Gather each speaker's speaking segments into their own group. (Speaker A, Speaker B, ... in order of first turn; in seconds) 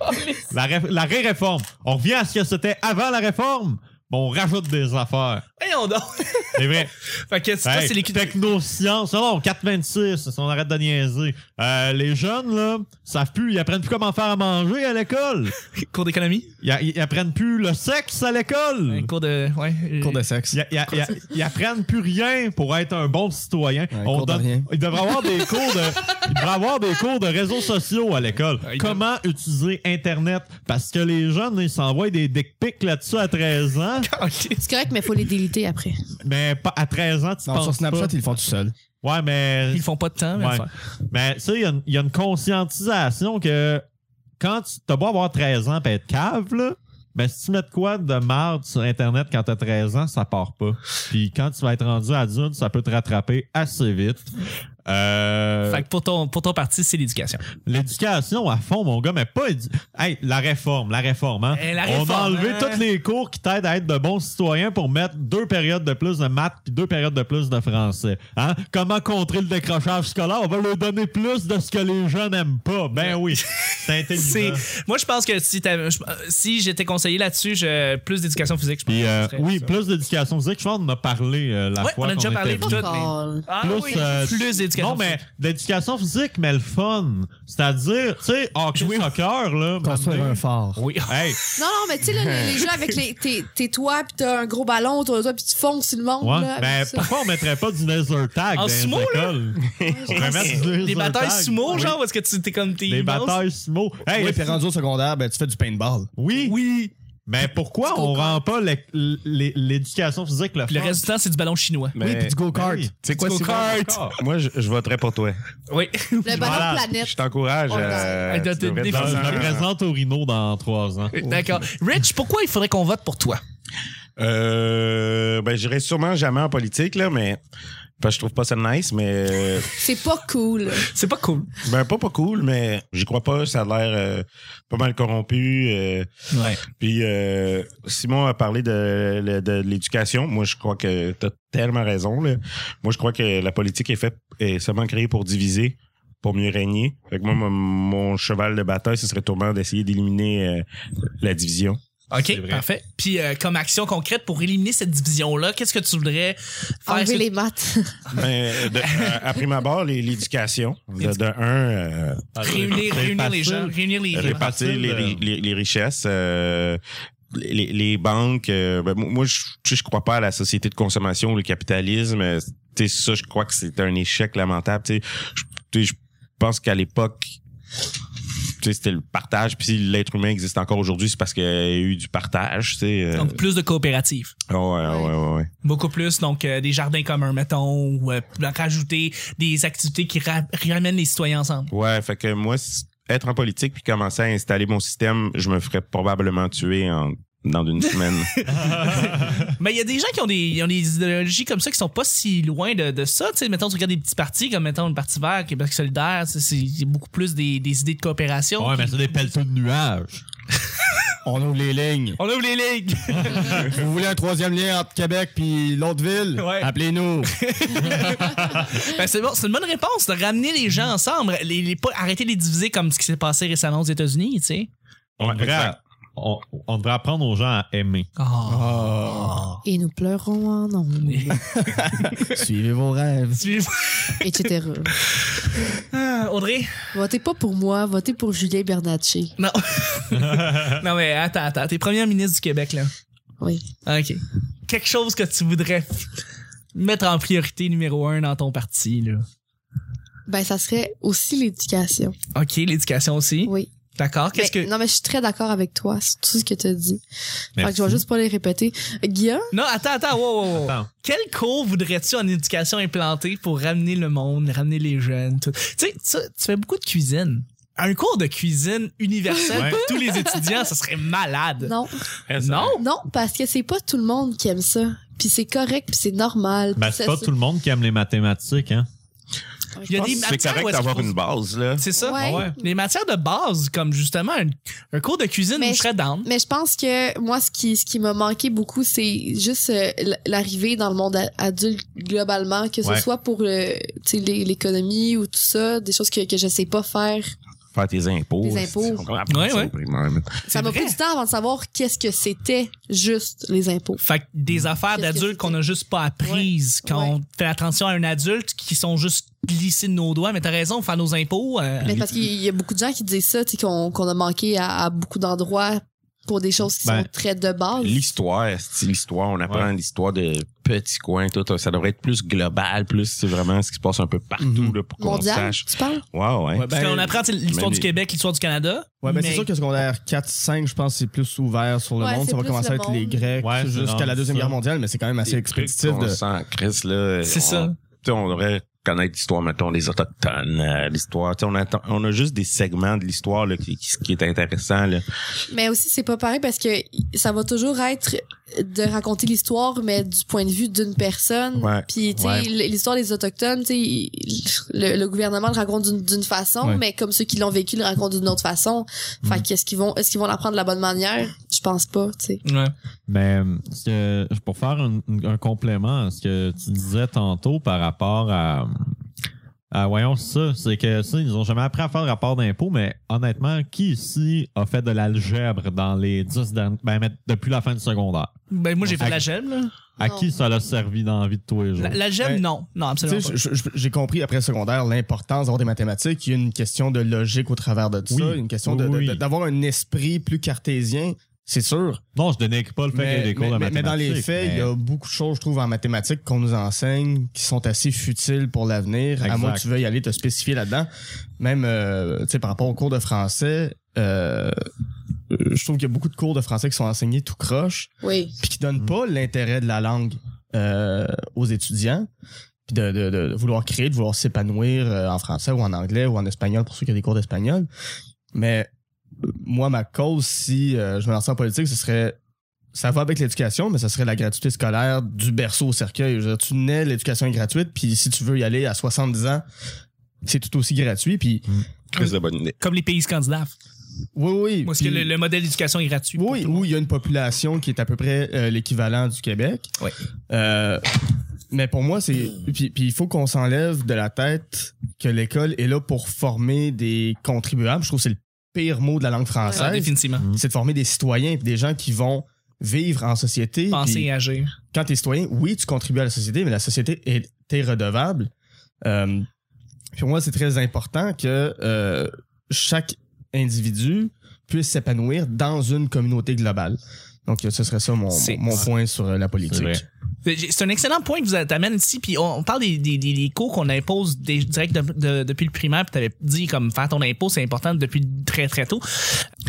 Speaker A: 0.5-5.5, 6.5-6.9, 7.6-15.6, 16.6-19.1, 20.5-34.1, 36.2-38.1, 39.0-43.9, 44.4-54.3, 54.9-55.9, 57.6-74.7, 78.9-82.9, 83.5-90.4, 91.1-91.4, 96.2-102.0, 102.9-104.6, 106.2-106.6, 107.3-111.1, 112.1-114.2, 116.3-116.9, 118.9-121.2, 152.2-152.7, 162.3-165.2, 198.6-199.5, 208.6-210.2, 225.2-228.1, 240.2-240.8, 257.6-258.1, 260.5-260.9, 269.5-269.8, 276.8-278.9, 282.1-282.6, 333.4-334.6, 363.1-369.0, 369.7-379.3, 380.0-382.0, 388.1-389.2, 392.1-394.7, 399.2-399.7, 469.4-469.8
Speaker B: 5.6-8.3, 15.7-16.5, 18.9-20.2, 28.6-29.0, 34.0-34.7, 39.7-40.7, 55.7-57.5, 61.5-62.8, 73.0-79.7, 81.8-85.2, 88.8-89.1, 90.8-91.6, 98.5-99.4, 100.8-103.4, 106.4-106.9, 110.7-112.0, 113.1-114.0, 115.7-116.7, 117.8-119.5, 121.1-123.4, 130.9-131.5, 136.3-136.6, 152.1-157.3, 158.8-159.2, 162.4-164.5, 183.2-184.3, 185.6-191.7, 197.8-208.9, 212.2-213.8, 216.4-216.7, 217.3-224.7, 228.2-229.6, 231.1-232.4, 233.4-234.5, 235.0-236.7, 239.4-242.9, 243.9-246.2, 246.7-249.3, 252.3-254.7, 259.5-271.8, 272.4-272.8, 279.9-281.1, 281.8-286.3, 299.3-299.7, 300.4-301.0, 304.0-312.0, 326.7-329.5, 337.2-337.8, 362.4-362.7, 378.5-379.7, 381.8-383.4, 432.0-433.5, 434.6-436.7, 449.5-450.2, 453.7-454.6, 468.1-468.4, 470.2-479.3
Speaker C: 20.0-20.6, 23.9-24.7, 37.5-38.7, 89.8-90.8, 104.1-106.1, 112.0-112.9, 121.2-121.5, 164.8-165.1, 211.2-212.2, 213.4-218.4, 228.5-229.4, 231.6-233.5, 324.4-324.8, 326.5-327.2, 329.0-336.2, 352.2-352.5, 383.0-392.0, 392.9-404.6, 405.3-412.1, 412.7-417.7, 418.3-418.7, 419.2-422.2, 422.7-429.4, 430.2-431.5, 434.1-435.1, 436.2-439.7, 440.3-440.9, 441.5-454.1, 454.7-458.3, 458.8-459.3, 460.0-469.9
Speaker D: 34.6-36.0, 82.6-83.8, 91.6-97.1, 99.8-100.6, 107.9-108.4, 116.2-118.2, 129.8-130.9, 156.9-158.1, 184.8-185.1, 229.7-231.4, 234.2-235.0, 236.9-239.3, 250.3-252.2, 254.3-257.0, 257.6-259.5, 269.5-270.6, 271.6-271.9, 272.8-277.3, 279.8-280.4, 282.0-282.8, 285.6-297.3, 298.4-299.1, 300.5-304.0, 304.9-305.6, 306.2-307.1, 311.9-318.0, 325.0-326.0, 332.0-333.3, 345.5-362.4, 380.0-380.3, 408.0-408.4
Speaker E: 92.2-92.6, 99.6-100.6, 112.0-112.5, 113.0-115.4, 116.4-119.7, 124.2-127.4, 128.0-129.7, 131.6-136.1, 136.6-150.7, 151.2-151.8, 158.1-162.3, 164.1-166.8, 167.3-177.4, 178.6-183.4, 184.5-185.5, 191.7-198.3, 225.2-225.8, 272.3-272.8, 279.9-281.9, 297.7-300.4, 317.8-326.7, 327.5-327.9, 335.2-345.1, 351.6-351.9, 431.9-432.6